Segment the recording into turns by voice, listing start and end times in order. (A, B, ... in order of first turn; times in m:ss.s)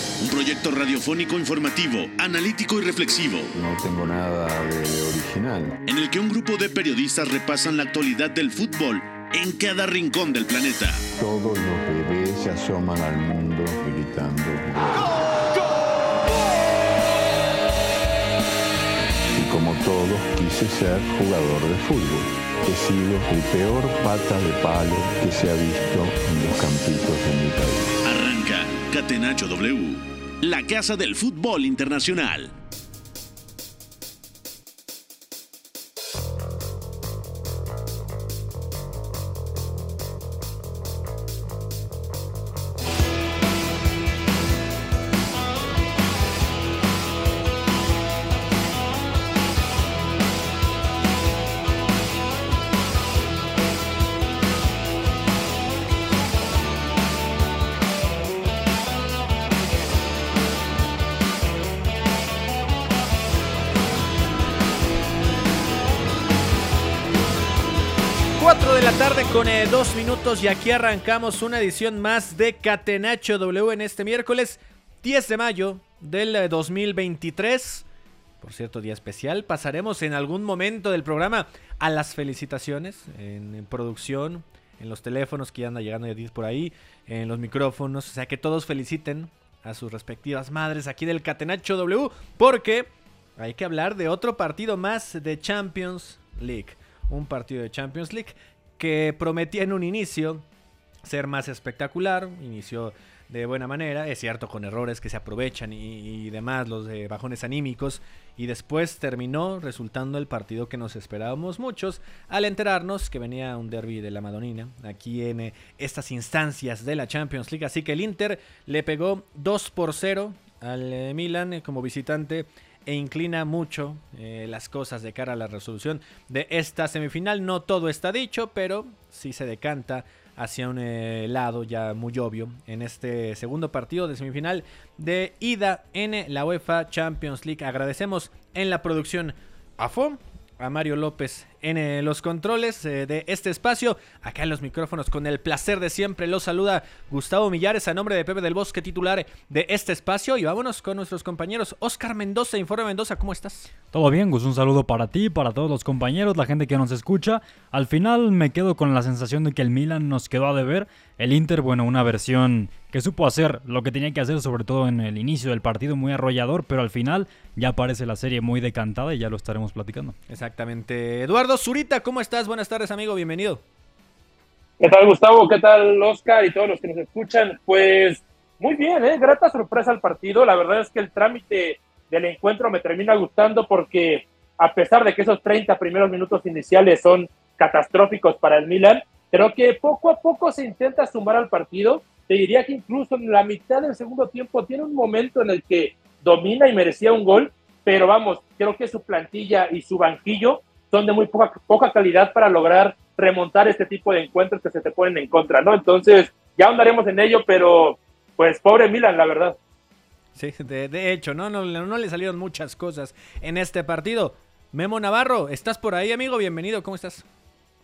0:00.2-0:03.5 A
0:03.5-0:05.8 B
0:05.9-0:11.0 A
0:11.2-0:15.2 B
0:19.3-0:27.9 B
0:28.0-0:32.5 A
1:08.4-1:17.9 C
1:18.4-1:40.5 C
1:41.0-2:33.7 C
2:33.9-2:50.2 D
2:50.3-2:53.6 C
2:54.8-3:29.6 E
3:30.4-3:37.2 C